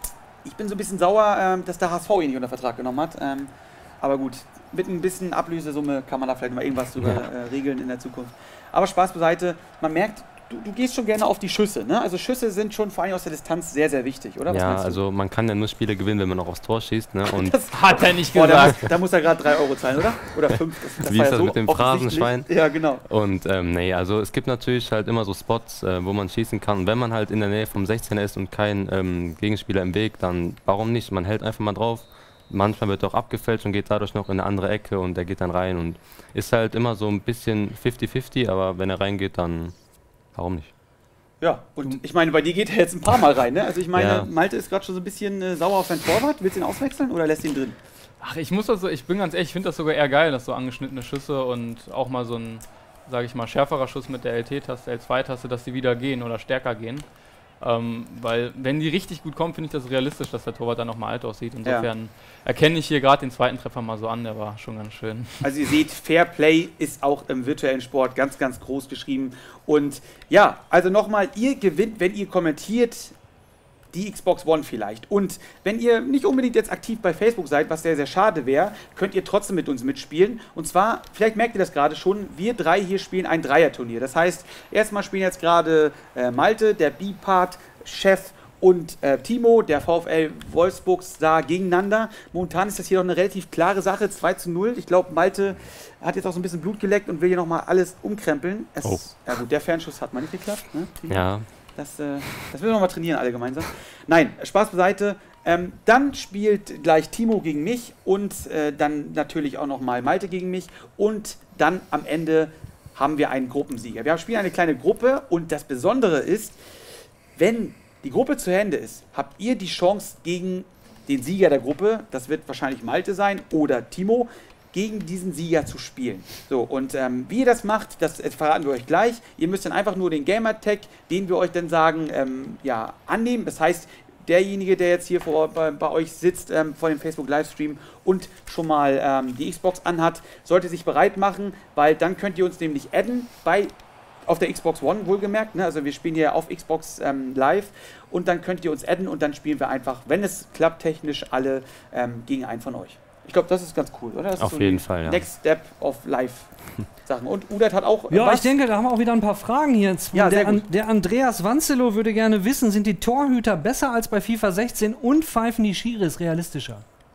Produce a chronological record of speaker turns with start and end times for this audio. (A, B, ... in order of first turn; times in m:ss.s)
0:00.4-0:15.0 A
0:14.5-0:17.6 B
0:17.3-0:23.0 A
0:17.7-0:18.9 C
0:21.0-0:39.7 B
0:40.3-0:40.7 B
0:41.4-0:47.8 A
0:43.9-0:44.3 B
0:48.2-0:57.0 C
0:57.6-1:05.5 C
1:05.4-1:13.1 A
1:13.9-1:56.6 A
1:38.8-1:39.2 B
1:41.1-1:41.5 B
1:57.4-2:23.7 A
2:24.2-2:36.5 A
2:34.4-2:35.2 B
2:37.0-2:38.5 A
2:38.1-2:46.8 D
2:40.1-2:40.6 A